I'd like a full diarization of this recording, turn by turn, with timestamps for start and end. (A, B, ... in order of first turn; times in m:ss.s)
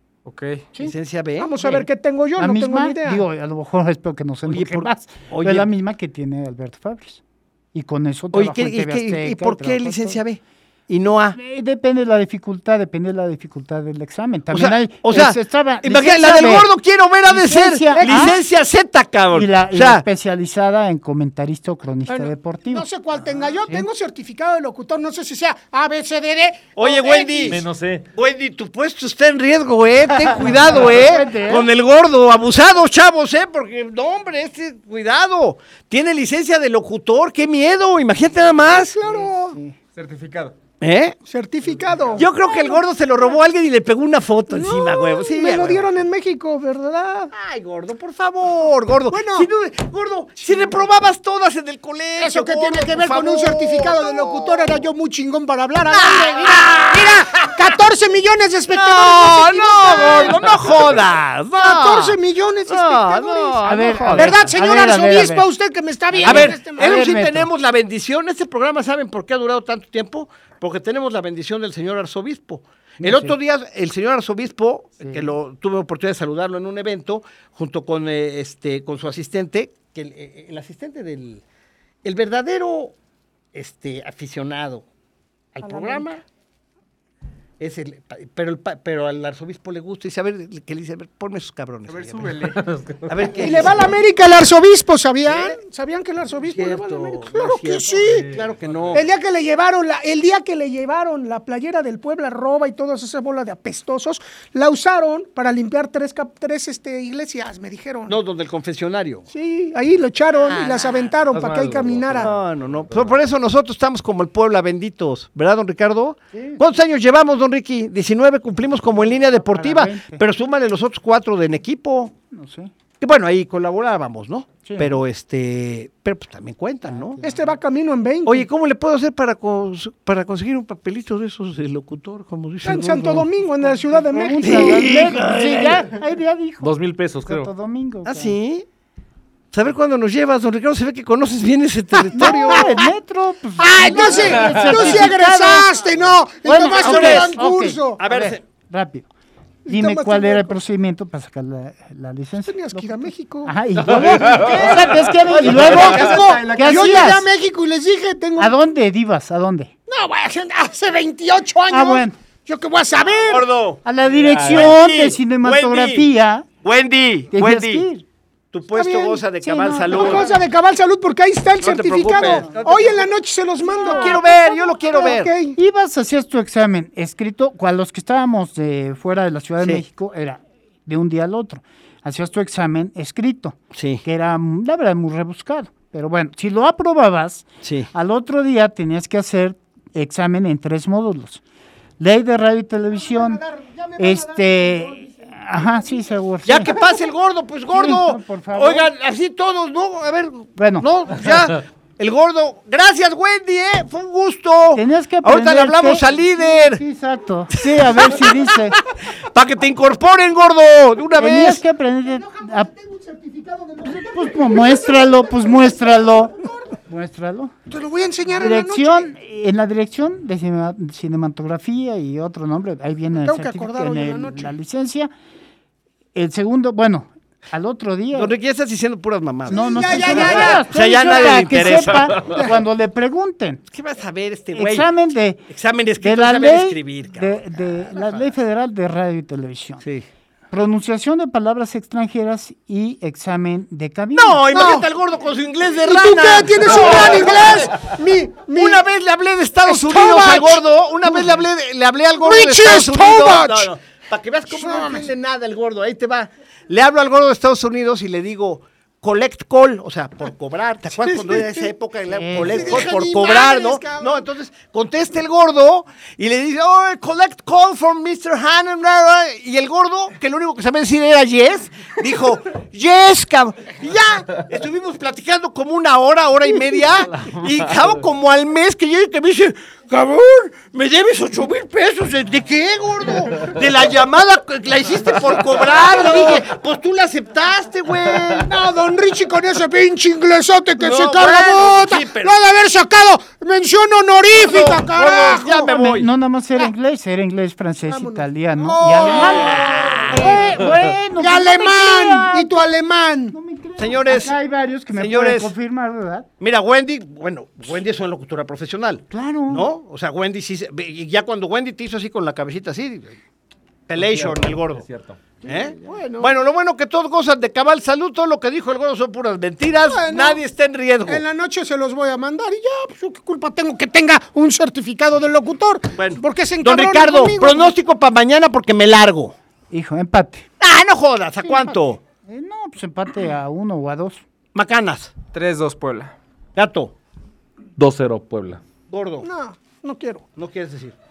0:00.2-0:00.7 A
0:00.8-0:01.5 B
0:01.4-0:03.2 C
0:02.4-0:07.2 D
0:04.4-0:05.7 B
0:07.7-0:10.2 D
0:08.3-0:11.4 B
0:11.4-0:16.7 D
0:14.5-0:20.0 B
0:17.2-0:18.4 D
0:17.9-0:18.4 C
0:19.3-0:22.9 D
0:22.1-0:27.5 C
0:26.8-0:39.3 B
0:27.4-0:28.0 E
0:30.4-0:31.7 D
0:38.7-0:39.6 C
0:39.5-0:39.8 D
0:40.0-0:40.6 A
0:40.8-0:41.2 B
0:41.3-0:42.8 C
0:42.0-0:42.2 A
0:42.1-0:45.9 B
0:44.5-0:47.3 C
0:47.3-0:54.8 B
0:49.1-0:49.5 C
0:50.4-0:50.7 C
0:52.2-1:00.9 C
0:55.9-0:57.8 B
0:58.7-1:04.5 B
1:01.6-1:07.0 C
1:03.6-1:05.5 D
1:06.1-1:07.5 D
1:06.2-1:21.4 B
1:13.0-1:13.4 D
1:15.0-1:15.3 D
1:22.0-1:23.0 B
1:23.5-1:24.9 B
1:25.5-1:26.2 B
1:25.6-1:26.0 C
1:27.6-1:32.4 B
1:31.9-1:32.7 A
1:32.4-1:33.4 E
1:33.1-1:33.9 B
1:33.4-1:38.3 C
1:35.3-1:35.6 B
1:36.4-1:39.0 B
1:38.9-1:48.1 C
1:48.1-1:49.3 B
1:49.3-1:52.3 C
1:50.4-1:51.2 B
1:51.3-1:53.2 E
1:52.1-2:02.1 B
1:56.3-1:56.6 D
1:59.4-2:00.2 D
2:02.3-2:02.7 D
2:03.0-2:07.2 B
2:04.6-2:05.0 D
2:06.9-2:07.4 D
2:07.2-2:08.4 C
2:08.2-2:13.3 B
2:12.6-2:15.1 C
2:13.9-2:18.4 D
2:14.4-2:16.0 B
2:16.6-2:17.5 E
2:18.0-2:18.7 B
2:19.5-2:22.8 B
2:22.1-2:25.7 D
2:22.2-2:22.8 C
2:23.6-2:28.0 C
2:26.4-2:29.1 D
2:26.7-2:27.3 B
2:28.0-2:28.4 B
2:29.7-2:30.5 C
2:29.7-2:37.3 D
2:32.4-2:33.5 C
2:33.8-2:36.6 E
2:35.2-2:36.7 B
2:35.4-2:38.5 C
2:38.4-2:39.7 D
2:39.9-2:43.5 C
2:41.7-2:42.2 D
2:43.2-2:43.8 B
2:43.8-2:46.5 D
2:44.0-2:44.7 E
2:44.4-2:46.1 B
2:46.6-2:47.9 B
2:47.3-2:48.0 D
2:48.5-2:50.4 B
2:48.7-2:55.6 C
2:49.4-2:50.1 D
2:51.6-2:53.0 B
2:53.7-2:54.2 D
2:53.8-2:55.3 B
2:55.6-3:11.4 D
2:59.6-2:59.8 B
3:03.7-3:04.0 B
3:07.6-3:07.9 B
3:12.0-3:13.4 D
3:12.9-3:16.0 C
3:14.0-3:16.8 D
3:16.4-3:26.8 B
3:17.7-3:18.9 D
3:20.6-3:20.9 D
3:24.7-3:28.8 D
3:27.5-3:31.6 B
3:31.1-3:32.7 D
3:32.1-3:36.8 C
3:33.8-3:37.5 D
3:37.7-3:39.1 C
3:38.4-3:45.1 D
3:43.1-3:44.5 C
3:46.1-3:48.4 D
3:48.1-3:52.5 B
3:49.5-3:50.7 C
3:49.5-3:53.6 D
3:53.7-3:54.9 B
3:54.5-3:55.5 D
3:55.5-3:58.3 B
3:56.0-3:59.8 D
4:00.5-4:04.5 D
4:04.1-4:08.0 B
4:04.5-4:04.9 C
4:05.8-4:08.8 C
4:08.5-4:48.5 B
4:09.6-4:10.6 C
4:12.2-4:13.7 C
4:14.5-4:15.1 C
4:22.1-4:22.9 D
4:22.3-4:24.2 C
4:45.7-4:46.4 C
4:48.4-4:55.6 C
4:50.8-4:52.4 B
4:54.3-4:56.1 B
4:55.5-5:02.5 D
4:57.8-5:00.6 C
4:58.8-5:00.6 B
5:01.1-5:03.4 C
5:03.3-5:06.3 D
5:03.8-5:04.4 B
5:04.9-5:05.5 B
5:06.4-5:13.2 B
5:09.1-5:09.7 D
5:13.9-5:14.9 B
5:13.9-5:15.3 E
5:15.4-5:21.2 B
5:15.5-5:16.3 C
5:19.8-5:20.4 C
5:21.1-5:27.7 C
5:26.0-5:29.4 B
5:29.7-5:30.5 D
5:30.6-5:32.0 B
5:31.4-5:34.2 D
5:34.5-5:35.1 B
5:35.3-5:36.1 A
5:36.6-5:36.9 B
5:37.8-5:38.6 E
5:38.9-5:39.3 B
5:39.2-5:40.2 C
5:40.4-5:41.0 B